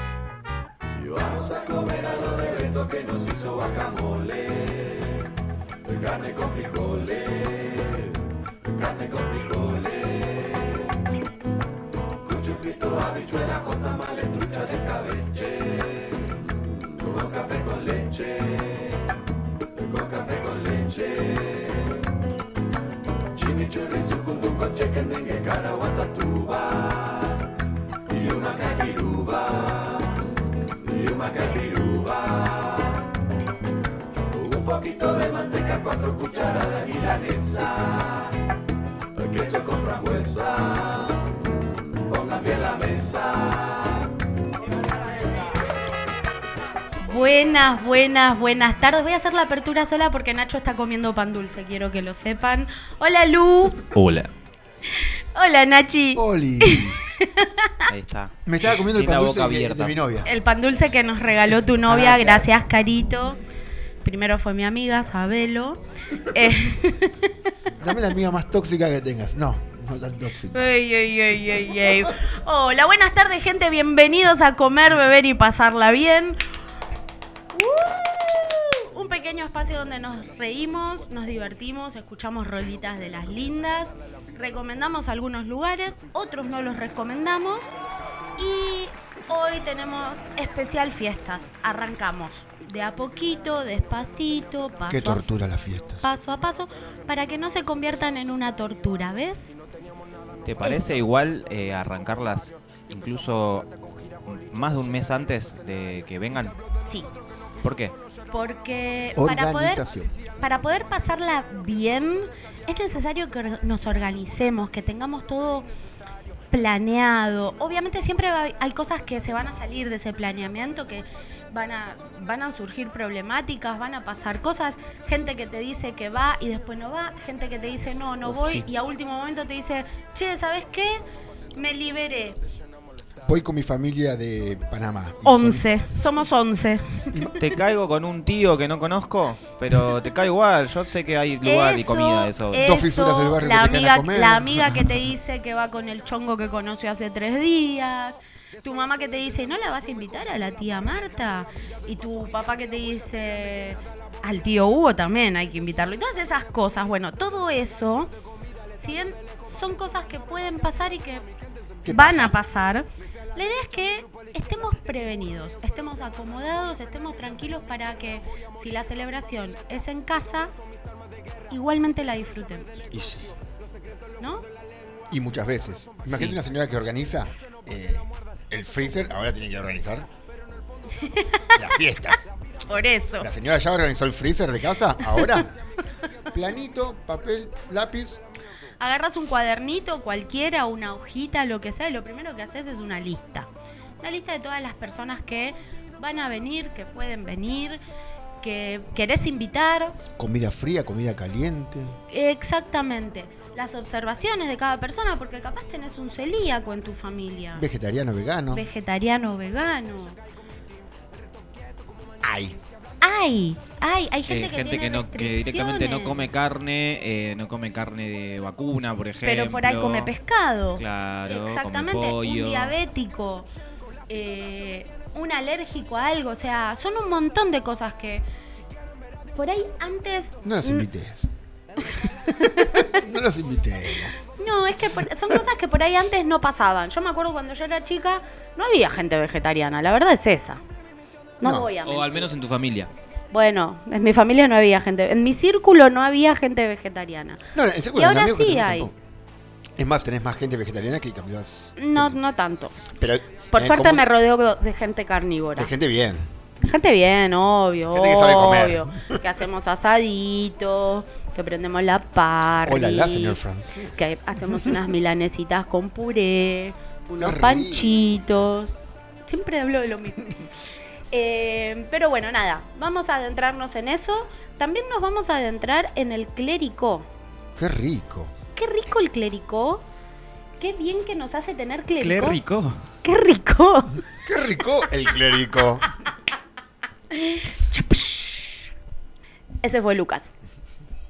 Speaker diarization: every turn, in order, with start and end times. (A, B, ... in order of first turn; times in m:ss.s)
0:01.0-0:05.2 A
0:05.8-0:08.1 A
0:08.7-0:10.8 A
0:12.2-0:19.0 A
0:19.8-0:21.9 A
0:23.4-0:27.4 A
0:28.1-0:33.0 A
0:34.3-0:38.3 A
0:39.2-0:44.1 A
0:47.0-0:53.8 B
0:53.9-0:54.3 C
0:55.4-0:57.8 B
0:56.2-0:57.1 D
0:57.9-1:00.0 C
0:58.5-1:00.3 D
1:00.3-1:03.4 B
1:01.8-1:02.5 D
1:04.0-1:07.3 B
1:07.8-1:10.7 D
1:10.5-1:16.4 B
1:17.5-1:27.7 B
1:28.4-1:35.3 B
1:34.9-1:36.1 D
1:36.0-1:39.6 B
1:40.4-1:43.7 C
1:40.6-1:41.0 B
1:44.3-1:46.6 C
1:47.6-1:47.9 C
1:48.3-1:49.8 B
1:49.2-1:50.1 D
1:50.4-1:55.7 B
1:56.5-2:11.0 B
2:08.3-2:08.6 C
2:11.6-2:12.4 B
2:13.2-2:15.6 D
2:15.2-2:17.2 B
2:17.4-2:22.6 C
2:21.4-2:38.1 B
2:22.6-2:24.9 D
2:38.8-2:41.2 B
2:41.8-2:42.4 D
2:41.9-2:50.5 B
2:51.5-2:52.7 B
2:52.9-2:53.3 D
2:54.2-2:54.4 B
2:55.1-3:00.1 D
2:56.1-2:56.4 C
3:01.0-3:01.6 B
3:01.6-3:02.3 D
3:02.7-3:03.3 B
3:03.2-3:05.5 D
3:06.3-3:08.2 D
3:08.8-3:13.5 B
3:14.0-3:17.8 B
3:18.4-3:20.0 B
3:20.2-3:22.0 D
3:22.1-3:27.6 B
3:27.5-3:28.7 D
3:28.5-3:30.2 B
3:32.2-3:32.6 D
3:33.0-3:36.3 B
3:34.3-3:40.1 C
3:39.2-3:43.5 B
3:40.8-3:42.8 C
3:44.1-3:48.2 B
3:49.4-3:50.9 B
3:50.4-3:51.3 D
3:52.1-3:52.9 B
3:52.6-3:54.2 D
3:54.4-4:00.6 B
4:01.4-4:02.2 B
4:01.4-4:01.7 D
4:01.8-4:02.9 C
4:03.3-4:07.4 B
4:07.5-4:09.0 D
4:08.0-4:08.9 B
4:09.8-4:12.2 D
4:11.8-4:12.8 B
4:12.9-4:14.1 D
4:13.5-4:15.7 B
4:15.6-4:16.3 D
4:16.6-4:23.4 B
4:17.9-4:19.2 D
4:22.6-4:24.0 D
4:24.0-4:28.7 B
4:27.2-4:28.5 D
4:29.3-4:30.3 B
4:31.1-4:37.1 B
4:37.6-4:38.3 D
4:38.6-4:39.8 B
4:40.6-4:42.4 B
4:42.0-4:42.8 C
4:43.0-4:44.0 B
4:44.2-4:45.9 D
4:47.1-4:48.7 B
4:49.6-4:50.3 B